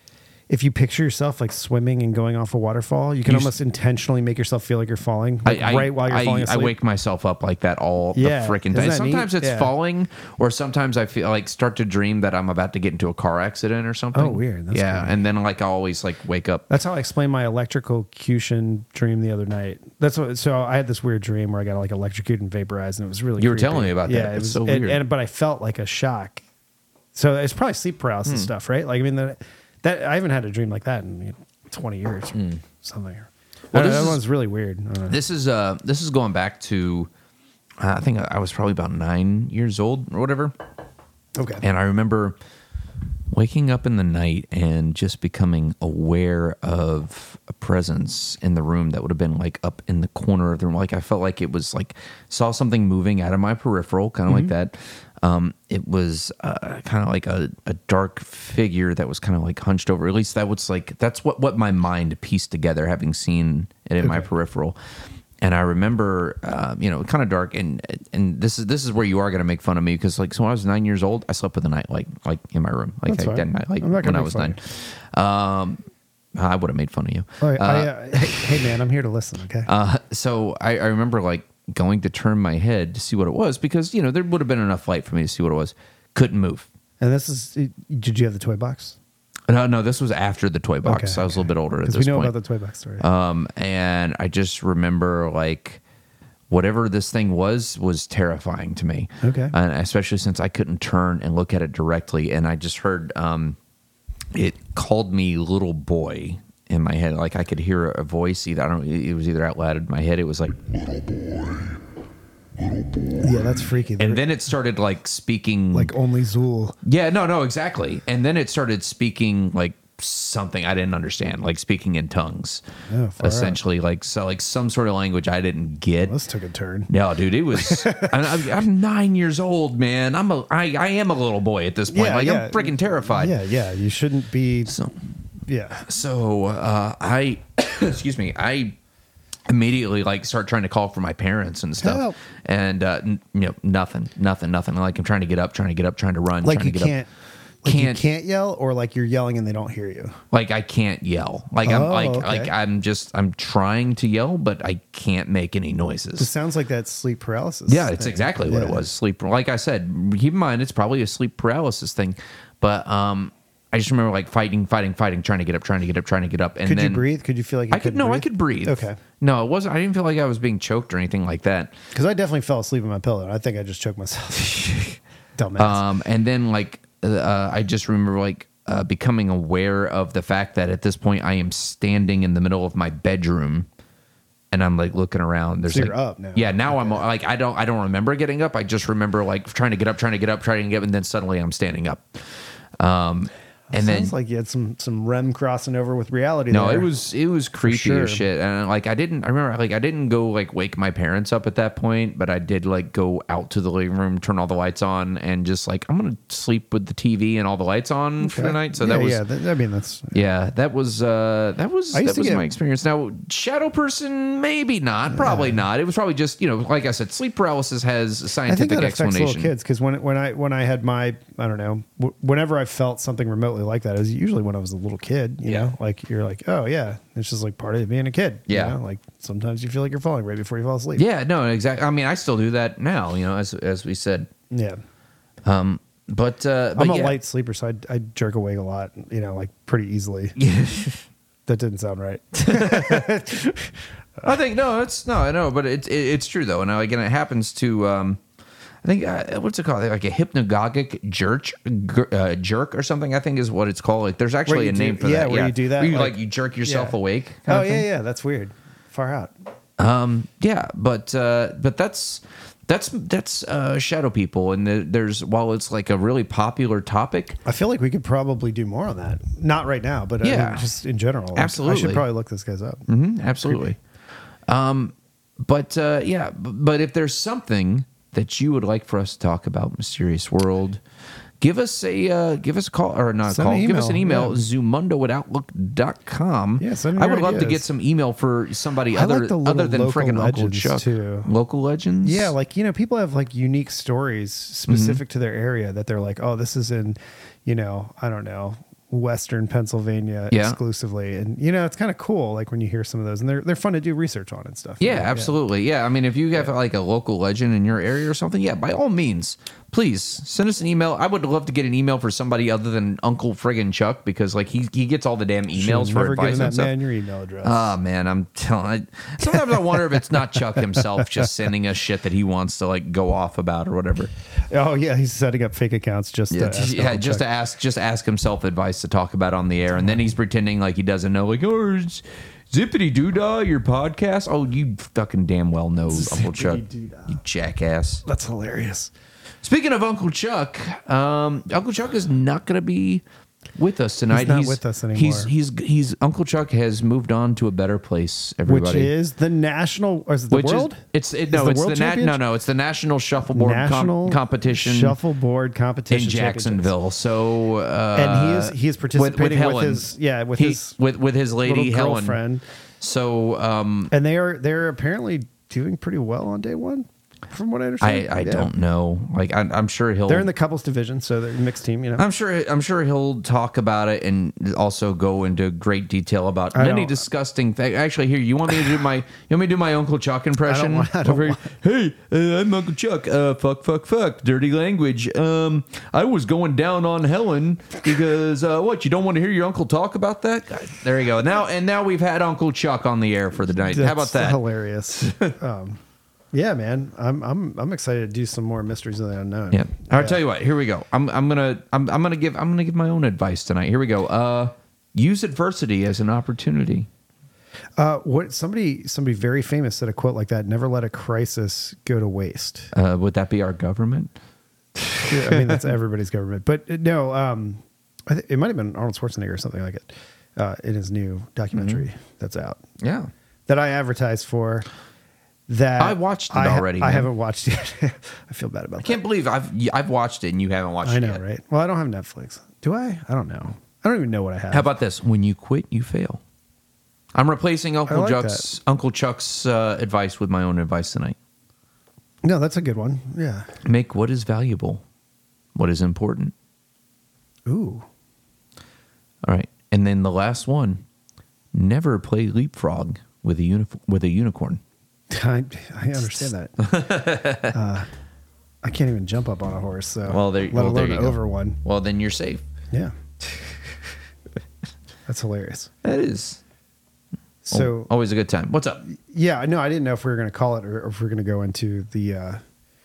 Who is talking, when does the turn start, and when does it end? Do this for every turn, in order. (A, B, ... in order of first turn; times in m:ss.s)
0:00.5-0:06.8 A
0:03.2-0:03.5 B
0:05.4-0:16.7 B
0:08.2-0:09.7 A
0:14.1-0:15.2 A
0:16.7-0:26.4 A
0:23.4-0:25.0 B
0:27.1-0:35.2 A
0:28.2-0:28.5 B
0:32.3-0:32.6 B
0:33.7-0:34.2 B
0:35.1-0:37.1 B
0:37.8-0:40.6 B
0:41.4-0:41.6 A
0:41.6-0:42.4 B
0:43.3-1:04.8 B
0:54.3-0:54.5 A
1:04.0-1:04.3 A
1:05.4-1:15.8 B
1:13.1-1:14.6 A
1:16.4-1:18.5 B
1:17.4-1:19.7 A
1:19.7-1:26.7 B
1:27.0-1:29.0 A
1:29.5-1:32.3 B
1:30.8-1:33.0 A
1:33.0-1:35.8 B
1:36.5-1:43.6 B
1:39.2-1:39.5 A
1:44.3-1:50.6 B
1:53.2-1:54.2 A
1:54.0-1:55.9 B
1:55.7-1:56.8 A
1:56.8-2:02.6 B
2:02.9-2:03.6 A
2:03.2-2:06.2 B
2:06.1-2:06.9 A
2:06.9-2:13.4 B
2:07.5-2:08.4 A
2:11.9-2:14.8 A
2:14.7-2:15.0 B
2:15.5-2:15.8 A
2:15.8-2:18.8 B
2:19.5-2:27.0 B
2:21.8-2:22.2 A
2:26.4-2:27.1 A
2:27.6-2:30.2 A
2:27.6-2:28.0 B
2:30.3-2:36.3 B
2:31.6-2:32.5 A
2:36.2-2:38.8 A
2:37.7-2:47.0 B
2:46.6-2:49.0 A
2:47.7-2:51.7 B
2:51.9-2:54.7 A
2:54.5-2:55.0 B
2:55.4-2:55.8 A
2:55.6-3:03.7 B
3:04.5-3:12.3 B
3:05.7-3:07.0 A
3:12.8-3:14.1 B
3:13.7-3:16.9 A
3:16.5-3:29.2 B
3:17.6-3:18.2 A
3:28.2-3:30.2 A
3:30.1-3:39.5 B
3:31.9-3:32.5 A
3:35.1-3:35.6 A
3:38.5-3:51.0 A
3:48.5-3:48.8 B
3:51.0-3:54.3 B
3:54.5-3:54.8 A
3:55.4-3:57.2 B
3:56.8-4:00.4 A
4:00.4-4:01.0 B
4:01.5-4:04.4 A
4:02.4-4:03.1 B
4:04.2-4:08.2 B
4:08.8-4:17.9 B
4:14.5-4:19.3 A
4:19.8-4:27.4 B
4:27.4-4:32.9 A
4:30.2-4:30.7 B
4:31.4-4:32.1 B
4:32.9-4:33.8 B
4:33.4-4:33.7 A
4:34.5-4:40.8 B
4:41.4-4:52.3 B
4:43.3-4:44.4 A
4:46.6-4:47.6 A
4:48.9-4:51.3 A
4:52.0-5:05.4 A
4:54.7-4:55.0 B
5:00.3-5:00.6 B
5:04.8-5:16.7 B
5:15.6-5:17.8 A
5:17.4-5:24.1 B
5:24.5-5:27.2 A
5:26.3-5:38.0 B
5:35.9-5:37.2 A
5:38.0-5:38.9 A
5:39.4-5:43.0 B
5:43.6-5:48.9 B
5:44.1-5:45.3 A
5:48.5-5:52.2 A
5:50.3-5:55.0 B
5:53.3-5:56.7 A
5:55.9-6:02.2 B
5:58.0-6:00.8 A
6:01.4-6:02.4 A
6:02.8-6:03.9 B
6:03.9-6:08.5 A
6:07.8-6:10.3 B
6:10.1-6:12.1 A
6:12.0-6:35.4 B
6:16.5-6:17.0 A
6:20.4-6:21.5 A
6:33.5-6:35.8 A
6:36.3-6:40.2 A
6:39.5-6:46.9 B
6:47.8-6:52.7 A
6:52.7-6:54.1 B
6:54.8-6:55.6 B
6:55.0-7:02.6 A
7:01.5-7:01.8 B
7:02.8-7:03.1 B
7:03.5-7:04.7 A
7:05.5-7:09.0 A
7:05.8-7:07.1 B
7:08.8-7:11.2 B
7:10.8-7:14.7 A
7:14.5-7:16.2 B
7:17.1-7:21.2 B
7:17.9-7:18.5 A
7:22.2-7:23.5 A
7:23.6-7:24.8 B
7:25.6-7:26.3 B
7:27.5-7:27.9 A
7:29.3-7:30.8 B
7:31.5-7:34.6 B
7:35.1-7:36.7 A
7:36.0-7:37.6 B
7:37.5-7:37.9 A
7:38.6-7:41.6 A
7:40.1-7:42.4 B
7:45.1-7:45.7 A
7:45.8-7:46.4 B
7:47.4-7:47.9 A
7:47.5-7:48.8 B
7:48.9-7:52.4 A